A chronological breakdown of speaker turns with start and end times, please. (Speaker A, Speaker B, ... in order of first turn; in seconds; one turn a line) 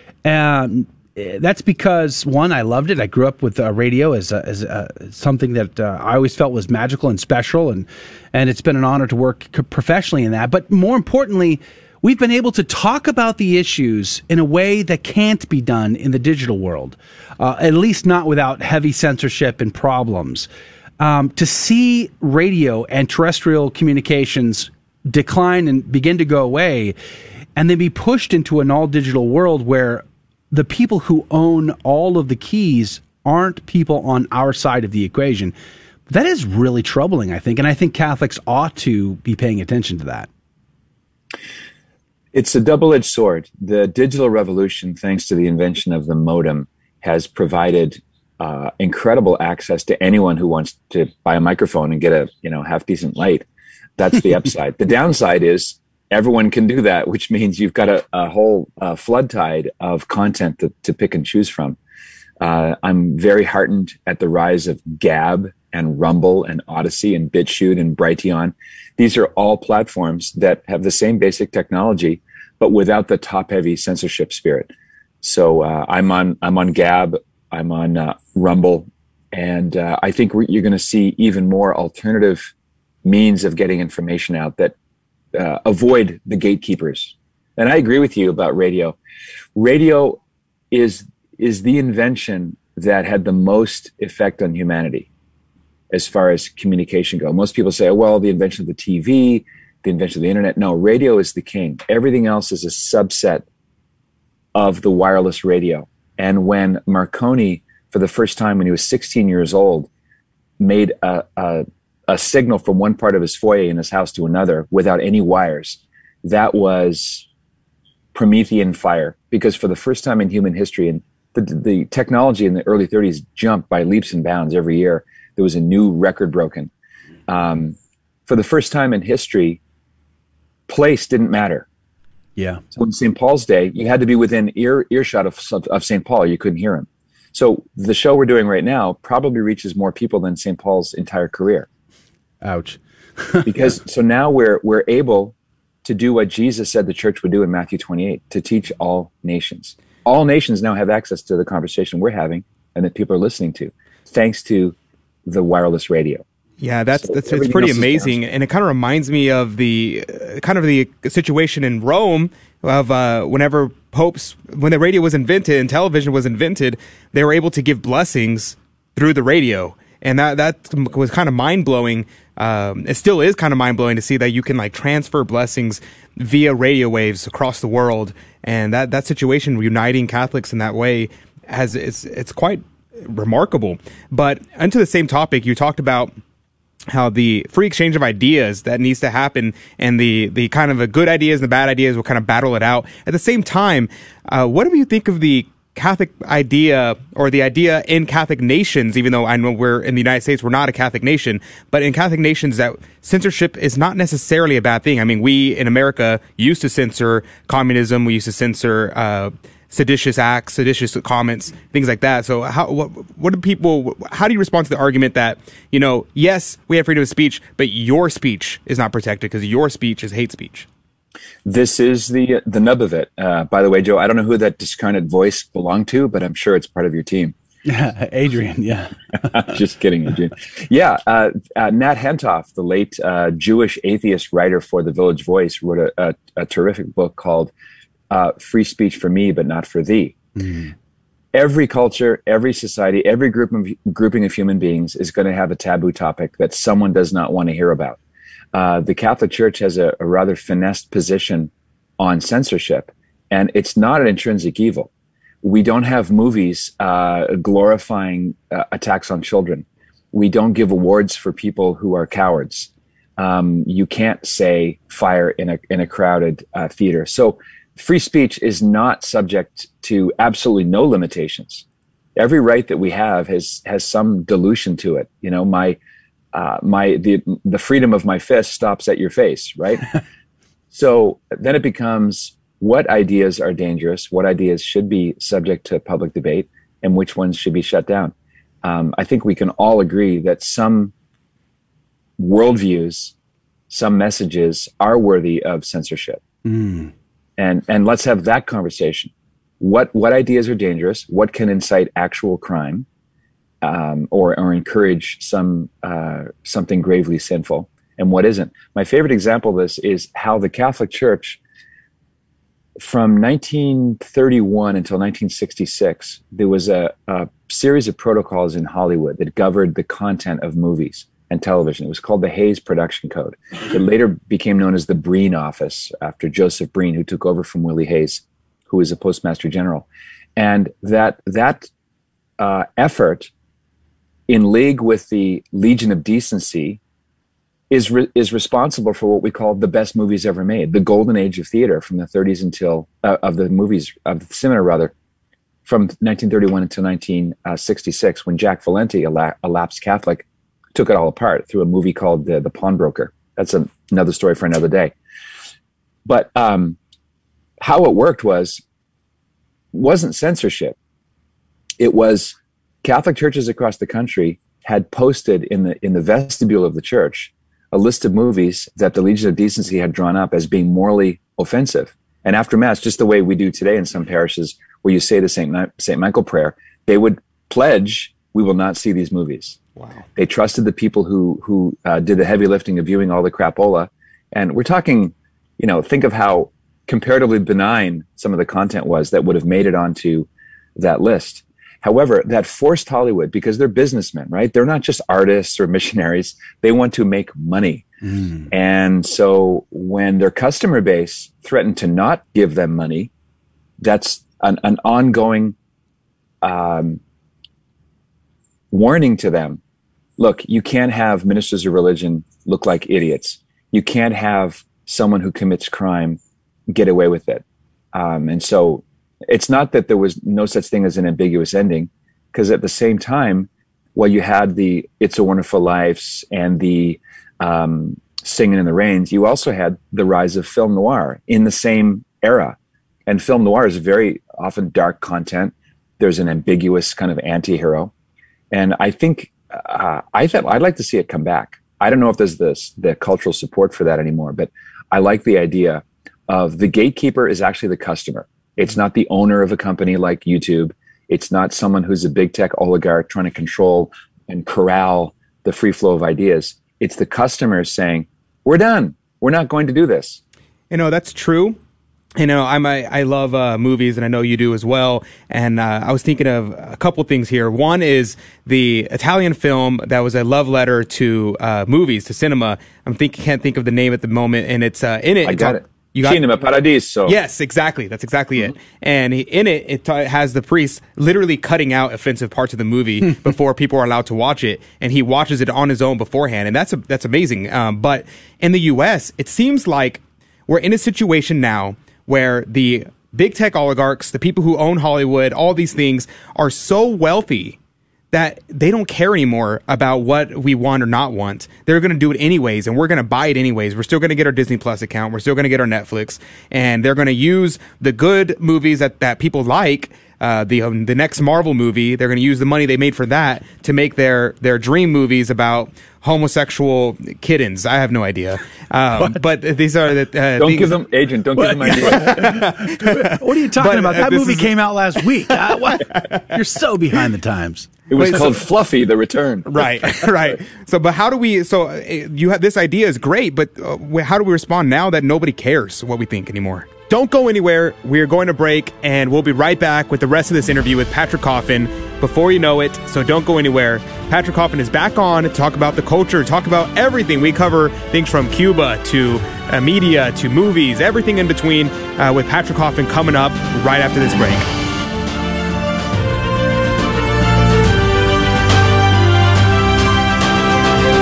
Speaker A: 0.2-20.5
Speaker A: 21.0-26.9
Speaker A: 27.6-35.5
Speaker A: 36.1-40.3
Speaker B: 42.3-53.5
Speaker B: 54.0-61.8
Speaker B: 62.4-82.5
Speaker B: 83.0-84.7
Speaker B: 85.3-89.0
Speaker B: 89.5-95.1
Speaker B: 95.9-103.4
Speaker B: 104.5-109.9
Speaker B: 110.6-117.3
Speaker B: 118.1-126.7
Speaker B: 127.3-127.8
Speaker B: 128.3-129.6
Speaker B: 130.7-131.7
Speaker A: 132.4-132.6
Speaker B: 132.7-141.7
Speaker A: 142.4-143.5
Speaker B: 143.4-154.8
Speaker B: 155.3-156.2
Speaker C: 156.6-186.1
Speaker B: 157.0-158.2
Speaker C: 186.9-220.7
Speaker B: 221.4-227.3
Speaker A: 227.7-228.9
Speaker B: 229.3-237.5
Speaker B: 238.1-240.2
Speaker A: 240.4-240.7
Speaker B: 241.3-248.0
Speaker B: 248.5-254.9
Speaker B: 255.4-271.6
Speaker B: 272.1-275.8
Speaker B: 276.3-279.9
Speaker B: 280.7-290.9
Speaker B: 292.2-293.1
Speaker B: 293.7-296.2
Speaker A: 296.4-296.9
Speaker B: 297.4-302.9
Speaker B: 303.6-311.4
Speaker B: 312.8-331.7
Speaker B: 332.4-333.3
Speaker B: 334.3-336.8
Speaker B: 337.7-344.9
Speaker B: 345.6-354.9
Speaker B: 356.1-356.8
Speaker B: 357.6-358.6
Speaker B: 359.7-360.8
Speaker B: 361.8-379.6
Speaker C: 379.8-380.0
Speaker B: 380.1-397.9
Speaker A: 398.1-398.5
Speaker B: 398.5-403.1
Speaker B: 403.8-405.6
Speaker B: 406.4-407.0
Speaker B: 408.7-409.6
Speaker B: 410.2-437.9
Speaker B: 438.5-460.2
Speaker C: 460.7-461.6
Speaker C: 462.2-476.2
Speaker B: 475.2-477.2
Speaker C: 477.1-497.6
Speaker C: 498.1-520.8
Speaker B: 520.4-522.5
Speaker A: 521.4-527.7
Speaker C: 521.9-524.5
Speaker B: 527.9-530.4
Speaker C: 528.0-528.4
Speaker C: 529.5-554.5